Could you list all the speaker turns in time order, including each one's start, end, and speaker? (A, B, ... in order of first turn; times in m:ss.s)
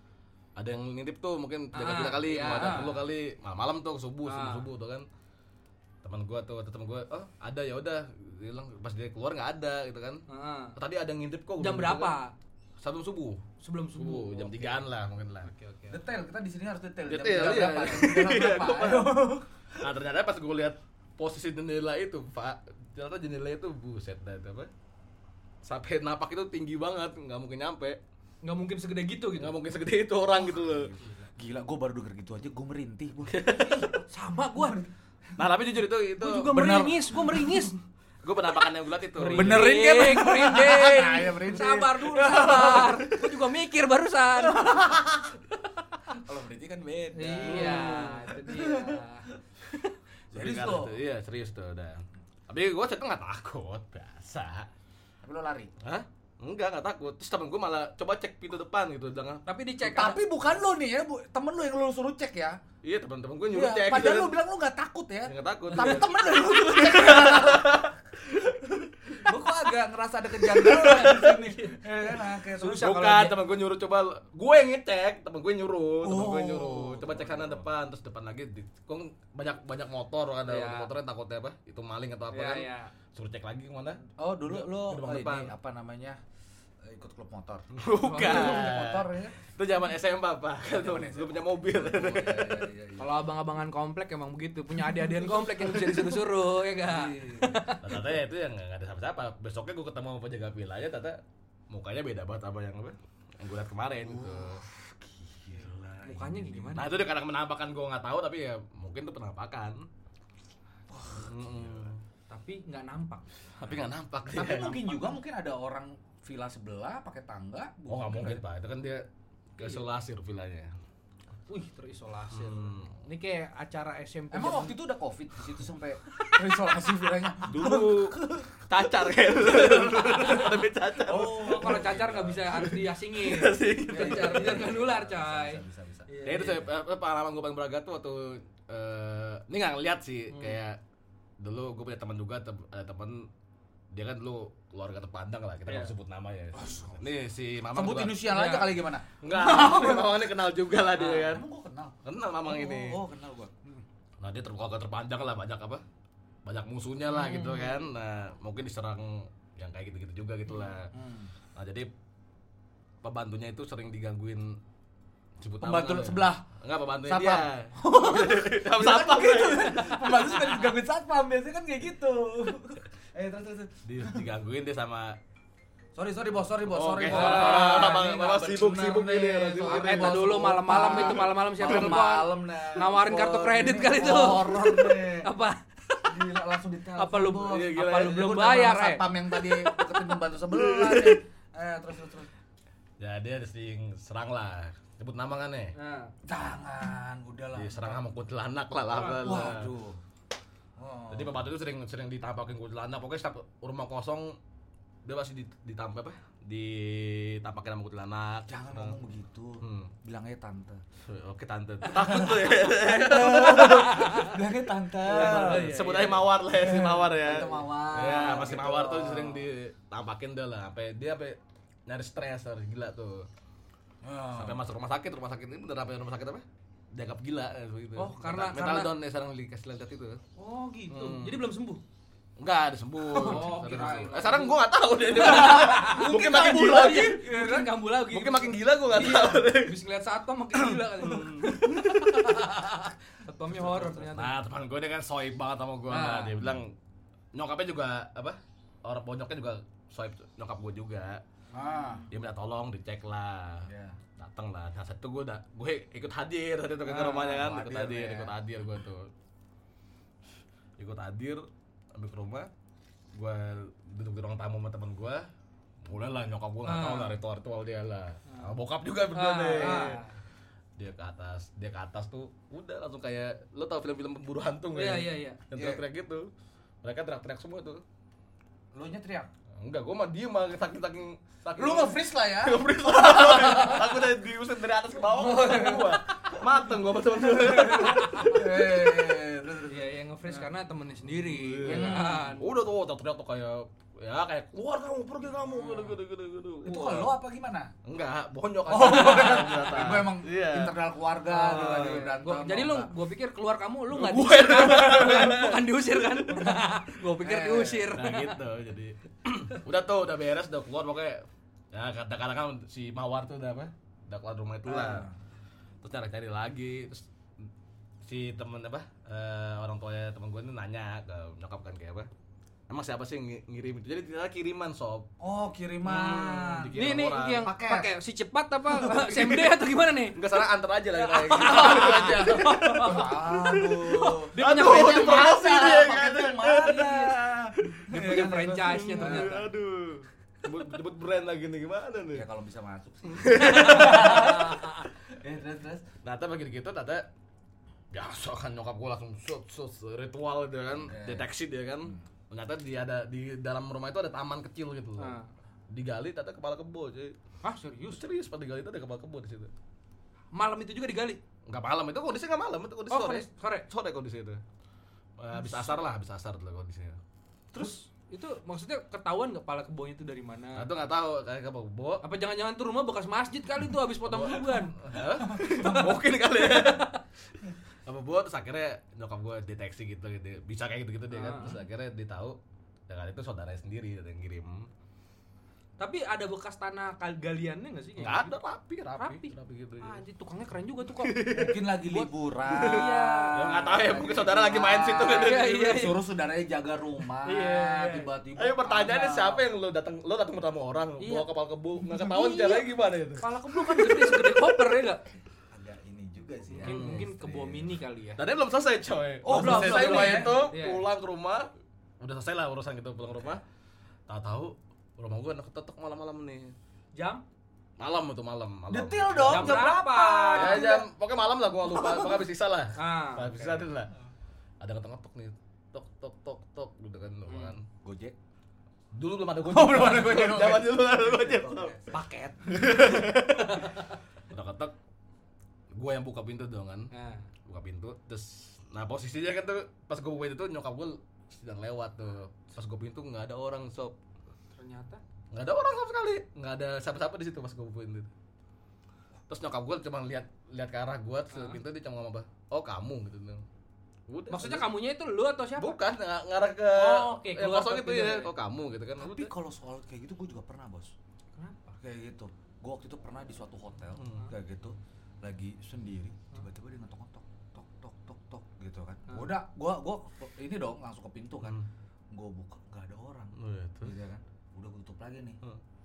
0:00.6-0:05.1 A
0:01.7-0:03.0 B
0:04.2-0:04.7 B
0:06.0-0:10.2 A
0:10.3-0:10.7 B
0:10.8-0:12.2 A
0:11.6-0:12.3 B
0:12.8-0:13.4 A
0:13.6-0:14.8 B
0:14.0-0:15.5 A
0:15.4-0:16.0 B
0:15.9-0:19.5 C
0:17.1-0:24.7 A
0:25.6-0:28.0 A
0:28.4-0:29.6 B
0:29.4-0:30.9 A
0:30.3-0:35.4 C
0:33.2-0:34.0 A
0:34.1-0:34.9 B
0:35.4-0:36.6 A
0:36.2-0:37.7 B
0:36.4-0:37.7 C
0:38.2-0:39.8 A
0:39.1-0:45.2 B
0:39.3-0:43.1 C
0:42.3-0:42.9 A
0:44.6-0:45.3 C
0:46.1-0:48.2 C
0:47.1-0:49.9 B
0:47.4-0:48.2 A
0:50.3-0:51.0 C
0:50.3-0:54.7 A
0:55.2-0:55.7 C
0:55.8-0:59.4 A
0:59.4-1:00.2 B
0:59.8-1:02.6 C
1:02.8-1:04.4 A
1:03.5-1:07.9 C
1:05.2-1:08.6 A
1:08.5-1:13.3 C
1:10.5-1:11.4 A
1:12.6-1:25.5 A
1:12.6-1:13.3 B
1:16.0-1:17.7 C
1:20.4-1:20.9 B
1:22.3-1:22.9 B
1:24.2-1:26.2 C
1:26.8-1:29.4 C
1:27.7-1:32.7 A
1:28.0-1:28.7 B
1:30.7-1:33.2 C
1:33.0-1:38.0 B
1:34.9-1:36.0 C
1:36.8-1:37.7 C
1:37.8-1:44.6 A
1:44.0-1:47.0 C
1:46.0-1:47.0 B
1:46.7-1:49.8 A
1:50.9-1:51.9 C
1:51.1-1:52.0 A
1:52.3-1:53.3 B
1:53.6-1:55.0 A
1:53.6-1:58.4 C
1:57.9-2:00.7 A
2:01.5-2:04.8 B
2:02.3-2:03.0 A
2:04.3-2:08.6 C
2:07.5-2:14.7 A
2:09.4-2:12.7 C
2:10.1-2:10.5 B
2:11.4-2:16.7 B
2:13.8-2:16.7 C
2:16.2-2:20.8 A
2:20.3-2:20.6 B
2:21.4-2:23.3 A
2:23.9-2:28.4 A
2:25.7-2:25.9 B
2:26.5-2:27.2 C
2:27.7-2:30.2 C
2:28.3-2:28.7 B
2:29.2-2:31.4 A
2:31.0-2:33.8 C
2:32.0-2:33.0 A
2:34.2-2:35.8 A
2:36.4-2:40.9 A
2:37.1-2:37.8 B
2:40.9-2:41.3 C
2:41.6-2:41.9 A
2:43.0-2:44.6 A
2:45.4-2:50.3 A
2:45.6-2:46.4 C
2:47.0-2:54.2 C
2:53.8-2:55.2 A
2:55.9-3:05.3 C
2:56.7-3:02.1 A
2:57.0-2:58.0 B
2:59.6-3:06.2 B
3:06.0-3:12.3 C
3:07.0-3:09.1 B
3:07.5-3:08.4 A
3:10.5-3:11.2 A
3:13.0-3:15.7 A
3:15.7-3:16.1 B
3:16.2-3:18.0 C
3:17.5-3:19.7 A
3:18.9-3:19.4 B
3:19.0-3:20.0 C
3:20.8-3:21.4 C
3:21.1-3:24.4 A
3:25.0-3:29.0 A
3:28.5-3:30.8 C
3:29.6-3:29.9 A
3:31.0-3:34.4 A
3:31.8-3:39.5 C
3:33.9-3:34.4 B
3:35.0-3:36.2 B
3:35.1-3:43.3 A
3:44.0-3:44.6 C
3:44.3-3:50.2 A
3:48.0-3:48.9 B
3:50.4-3:50.9 C
3:50.7-3:51.8 B
3:50.9-3:51.4 A
3:52.4-3:57.3 A
3:53.1-3:54.6 B
3:53.2-3:53.9 C
3:55.1-4:04.3 B
3:55.2-3:57.7 C
3:58.0-3:59.8 A
4:00.6-4:02.2 A
4:03.6-4:06.7 A
4:05.9-4:06.5 B
4:07.3-4:11.2 A
4:11.5-4:12.1 C
4:12.1-4:19.1 A
4:13.6-4:14.0 C
4:16.8-4:17.4 B
4:17.2-4:18.4 C
4:20.8-4:22.5 A
4:23.1-4:25.3 A
4:25.8-4:30.0 A
4:26.6-4:27.2 B
4:28.3-4:28.5 B
4:29.1-4:30.2 B
4:29.6-4:29.9 C
4:30.8-4:36.3 A
4:34.7-4:35.4 B
4:35.5-4:35.8 C
4:36.8-4:37.8 A
4:38.7-4:39.3 C
4:39.6-4:48.4 A
4:41.6-4:44.1 C
4:45.0-4:46.4 C
4:47.2-4:50.4 C
4:47.6-4:48.4 B
4:49.7-4:52.5 B
4:51.1-4:57.2 A
4:51.6-4:52.4 C
4:56.6-4:57.7 C
4:57.8-5:00.8 A
4:58.6-5:02.9 C
5:01.3-5:08.4 B
5:01.4-5:02.1 A
5:03.9-5:05.7 A
5:06.3-5:07.9 C
5:07.9-5:15.1 A
5:14.6-5:15.2 C
5:15.8-5:17.4 A
5:18.0-5:22.1 A
5:22.7-5:25.1 A
5:25.2-5:26.8 C
5:25.8-5:27.5 A
5:26.7-5:30.2 B
5:27.3-5:27.9 C
5:28.7-5:29.4 C
5:30.1-5:37.9 A
5:31.0-5:35.4 B
5:31.3-5:39.4 C
5:37.9-5:39.5 B
5:38.6-5:42.2 A
5:42.1-5:45.9 C
5:43.1-5:44.6 A
5:43.4-5:44.7 B
5:46.0-5:47.1 A
5:47.9-5:55.2 A
5:50.8-5:51.3 C
5:55.0-5:55.3 B
5:55.7-5:57.2 A
5:57.4-5:58.0 B
5:57.9-5:59.5 A
6:00.3-6:01.2 B
6:01.4-6:04.4 A
6:02.9-6:03.7 B
6:05.2-6:07.0 A
6:07.5-6:10.7 B
6:10.5-6:12.0 A
6:12.0-6:14.8 B
6:14.0-6:16.9 A
6:15.1-6:16.1 C
6:16.4-6:17.0 B
6:17.8-6:22.4 A
6:21.1-6:21.6 B
6:22.9-6:24.7 A
6:25.8-6:28.3 B
6:28.0-6:30.0 A
6:28.9-6:31.4 B
6:30.9-6:35.6 A
6:31.3-6:39.4 C
6:32.5-6:34.2 B
6:35.0-6:36.0 B
6:37.2-6:38.1 B
6:38.4-6:44.7 A
6:41.0-6:41.3 B
6:41.8-6:45.0 B
6:45.5-6:47.8 C
6:46.5-6:48.2 B
6:46.6-6:47.1 A
6:48.2-6:51.5 A
6:49.2-6:50.4 C
6:49.2-6:50.8 B
6:52.0-6:53.4 A
6:54.1-6:56.5 A
6:57.0-6:57.2 B
6:57.8-6:59.8 A
6:58.7-7:00.9 C
6:59.2-7:00.7 B
7:00.3-7:03.9 A
7:01.7-7:02.2 C
7:02.7-7:03.6 B
7:04.6-7:07.6 A
7:07.3-7:07.6 B
7:07.8-7:08.2 C
7:08.9-7:11.7 A
7:09.4-7:12.1 C
7:11.9-7:14.0 B
7:12.5-7:14.7 A
7:15.7-7:16.9 A
7:16.9-7:17.3 B
7:17.4-7:24.0 A
7:24.5-7:25.0 B
7:25.3-7:28.1 A
7:29.3-7:33.4 A
7:31.3-7:31.6 B
7:34.1-7:34.7 A
7:34.3-7:35.8 B
7:35.6-7:39.3 A
7:36.7-7:38.3 B
7:39.0-7:40.9 C
7:41.4-7:41.8 B
7:41.8-7:51.6 C
7:44.0-7:44.3 A
7:49.1-7:49.3 B
7:52.1-7:55.4 C
7:53.4-7:54.0 A